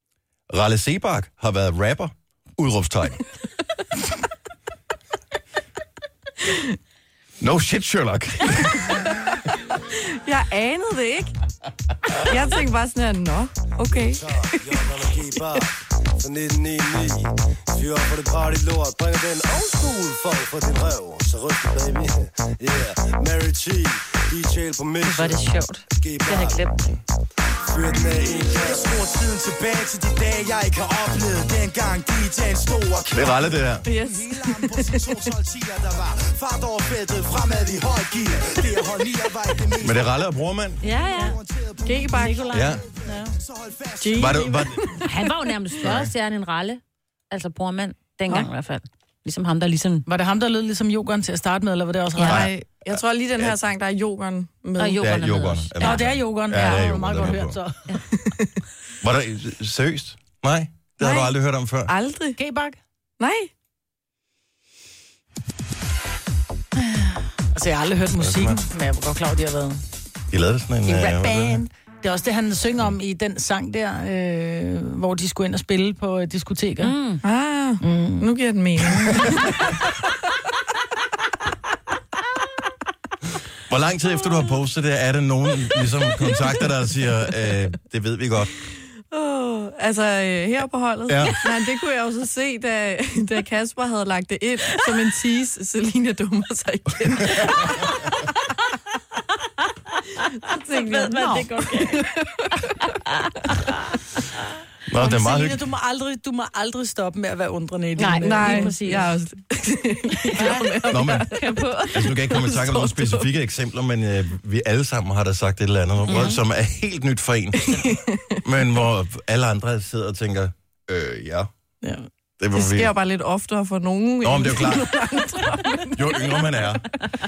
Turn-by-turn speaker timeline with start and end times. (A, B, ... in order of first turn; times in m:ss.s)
0:00.5-0:03.2 A
0:07.4-0:09.1 A
0:09.9-0:11.3 B
0:12.2-0:14.8 B
0:13.9-0:26.7 C
0:25.0-0:26.9 D
0:27.6-0:40.1 C
0:33.1-0:33.9 A
0:33.8-0:35.1 B
0:39.8-0:40.8 A
0:40.8-0:41.4 D
0:41.0-0:44.8 C
0:41.8-0:42.5 B
0:42.1-0:43.3 D
0:42.5-0:42.8 A
0:44.0-0:44.9 B
0:44.2-0:44.9 A
0:45.0-0:50.0 D
0:45.8-0:46.1 A
0:50.0-0:52.4 E
0:52.2-0:55.0 B
0:52.3-0:53.6 A
0:54.8-0:56.0 D
0:55.0-0:57.6 A
0:55.8-0:57.9 E
0:58.1-0:58.5 B
0:59.0-1:01.9 A
1:01.0-1:01.3 B
1:01.9-1:02.4 B
1:02.4-1:02.8 E
1:03.2-1:03.5 B
1:06.8-1:09.8 E
1:08.2-1:08.6 A
1:10.3-1:11.6 A
1:10.8-1:17.0 E
1:16.8-1:17.2 D
1:17.2-1:19.7 B
1:17.8-1:18.2 E
1:23.7-1:28.5 A
1:29.1-1:37.9 B
1:31.1-1:31.4 A
1:40.5-1:42.5 B
1:40.8-1:42.0 D
1:43.1-1:43.7 D
1:44.9-1:45.6 A
1:45.0-1:48.8 E
1:48.0-1:49.1 D
1:48.2-1:53.3 B
1:50.3-1:52.0 D
1:50.4-1:50.6 E
1:50.9-1:51.3 A
1:51.9-2:01.5 A
1:56.1-1:56.4 D
1:57.6-1:58.4 B
2:02.4-2:02.9 A
2:02.5-2:06.4 B
2:04.2-2:04.9 A
2:06.0-2:06.8 A